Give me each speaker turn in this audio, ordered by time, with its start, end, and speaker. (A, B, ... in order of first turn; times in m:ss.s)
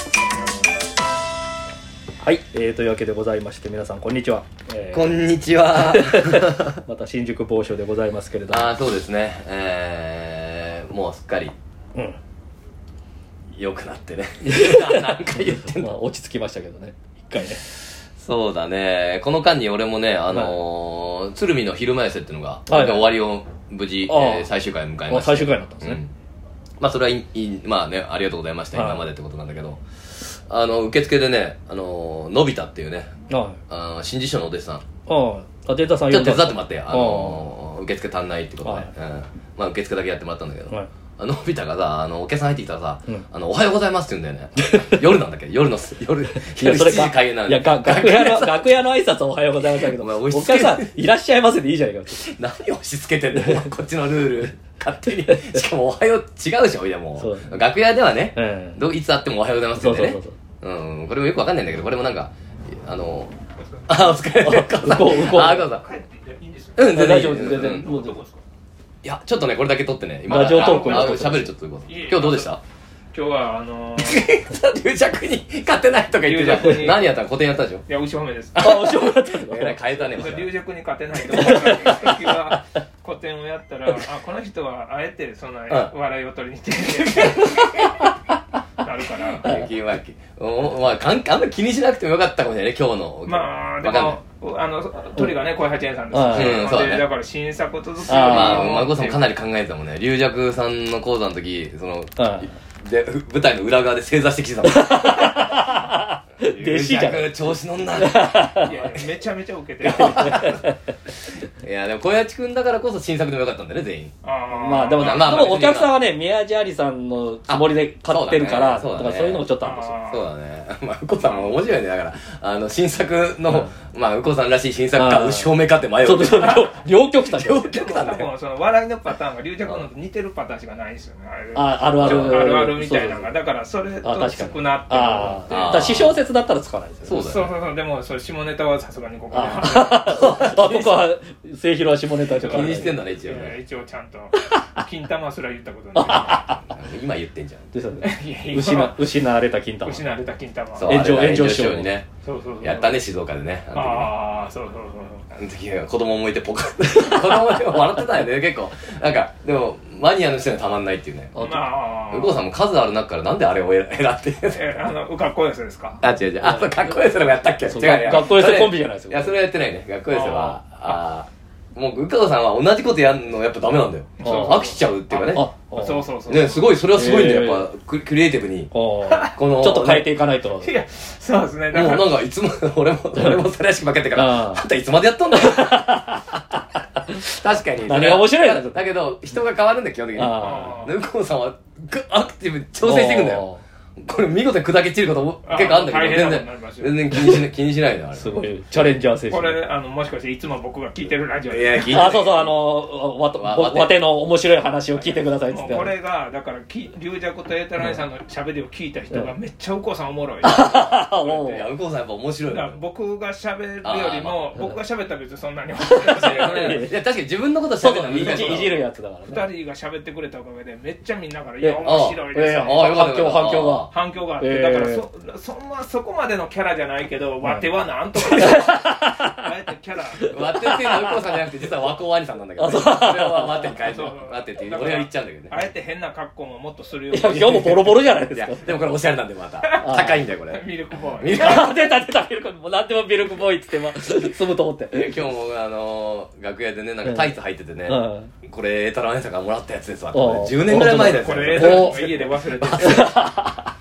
0:02.2-0:05.2 A
0:04.9-0:06.8 B
0:05.7-0:08.7 A
0:08.5-0:11.5 B
0:13.5-0:15.9 B
0:14.4-0:17.6 A
0:18.2-0:26.1 B
0:20.3-0:20.6 A
0:22.7-0:23.1 A
0:24.1-0:24.5 A
0:25.1-0:26.0 A
0:26.8-0:33.1 B
0:28.7-0:29.0 A
0:33.3-0:33.6 A
0:33.7-0:34.8 B
0:35.1-0:37.5 A
0:36.1-0:48.8 B
0:38.6-0:38.9 A
0:46.4-0:52.2 A
0:49.6-0:51.0 B
0:52.1-1:03.3 B
0:53.4-0:53.6 A
0:55.1-0:55.6 A
0:57.2-0:57.6 A
0:58.3-0:58.8 A
0:59.8-1:00.4 A
1:03.9-1:05.8 B
1:04.4-1:05.7 A
1:05.4-1:08.4 C
1:06.8-1:07.9 B
1:06.9-1:08.2 A
1:09.0-1:12.6 B
1:10.3-1:11.5 A
1:10.4-1:11.3 C
1:11.8-1:12.6 C
1:13.1-1:14.3 C
1:14.0-1:17.8 B
1:16.2-1:17.2 C
1:17.8-1:18.9 C
1:18.6-1:19.8 A
1:18.6-1:20.5 B
1:20.1-1:28.1 C
1:21.3-1:22.5 A
1:21.4-1:21.7 B
1:28.8-1:29.6 C
1:29.3-1:34.2 B
1:33.2-1:39.2 C
1:36.1-1:36.6 A
1:36.3-1:37.0 B
1:38.1-1:38.8 A
1:38.1-1:45.7 B
1:42.2-1:42.5 A
1:44.6-1:47.4 A
1:46.4-1:48.9 B
1:48.0-1:48.8 A
1:48.6-1:50.4 C
1:49.8-1:50.7 B
1:49.8-1:50.8 A
1:51.4-1:54.1 B
1:54.2-1:55.5 C
1:54.5-2:00.0 A
1:54.9-1:55.9 B
1:57.5-1:59.5 B
1:59.6-2:00.3 C
2:00.1-2:08.3 B
2:01.2-2:01.6 C
2:04.9-2:07.7 A
2:06.4-2:06.7 C
2:07.6-2:16.0 C
2:11.5-2:13.3 A
2:12.0-2:12.7 B
2:14.0-2:17.2 A
2:15.5-2:16.2 B
2:17.0-2:17.5 B
2:17.1-2:20.2 C
2:19.3-2:22.9 A
2:20.0-2:21.1 B
2:22.2-2:26.5 C
2:22.4-2:23.6 B
2:25.9-2:26.7 A
2:26.2-2:27.7 B
2:27.7-2:30.0 A
2:28.0-2:29.1 C
2:29.8-2:31.2 C
2:30.7-2:32.1 B
2:30.8-2:31.9 A
2:32.2-2:33.0 C
2:32.6-2:34.1 B
2:33.7-2:35.2 C
2:35.3-2:41.4 B
2:37.1-2:37.6 A
2:41.3-2:41.6 A
2:41.4-2:42.4 C
2:42.1-2:44.6 B
2:44.5-2:46.0 C
2:46.0-2:55.5 B
2:47.6-2:49.4 A
2:50.1-2:50.6 C
2:54.2-2:56.7 C
2:54.2-2:54.7 A
2:55.3-2:56.1 A
2:56.3-2:58.7 B
2:56.9-2:57.7 A
2:58.7-3:00.7 A
2:59.0-2:59.3 C
2:59.3-3:00.1 B
3:00.6-3:02.2 C
3:01.7-3:06.0 B
3:04.1-3:04.6 A
3:05.3-3:07.2 A
3:07.2-3:18.4 B
3:07.8-3:08.8 A
3:10.1-3:10.8 A
3:10.3-3:10.9 C
3:12.8-3:13.6 A
3:15.4-3:17.1 C
3:17.1-3:17.4 A
3:18.1-3:19.6 A
3:19.3-3:22.2 C
3:21.5-3:22.6 B
3:21.9-3:25.9 A
3:23.3-3:24.0 B
3:24.9-3:31.7 C
3:30.4-3:31.6 A
3:30.5-3:32.8 B
3:32.4-3:36.9 C
3:33.8-3:34.4 B
3:35.8-3:37.0 A
3:36.2-3:38.8 B
3:37.8-3:39.5 A
3:38.2-3:38.7 C
3:39.3-3:43.1 C
3:41.6-3:45.0 A
3:41.8-3:43.9 B
3:43.9-3:50.4 C
3:48.2-3:49.5 A
3:50.3-3:55.6 B
3:50.3-3:51.2 A
3:52.6-3:54.0 A
3:53.8-3:58.0 C
3:57.1-3:58.8 A
3:58.3-4:01.7 B
3:59.6-4:01.7 C
3:59.8-4:00.2 A
4:01.3-4:05.2 A
4:04.9-4:13.3 B
4:07.0-4:07.3 A
4:07.8-4:08.3 A
4:10.1-4:13.6 A
4:10.8-4:13.2 C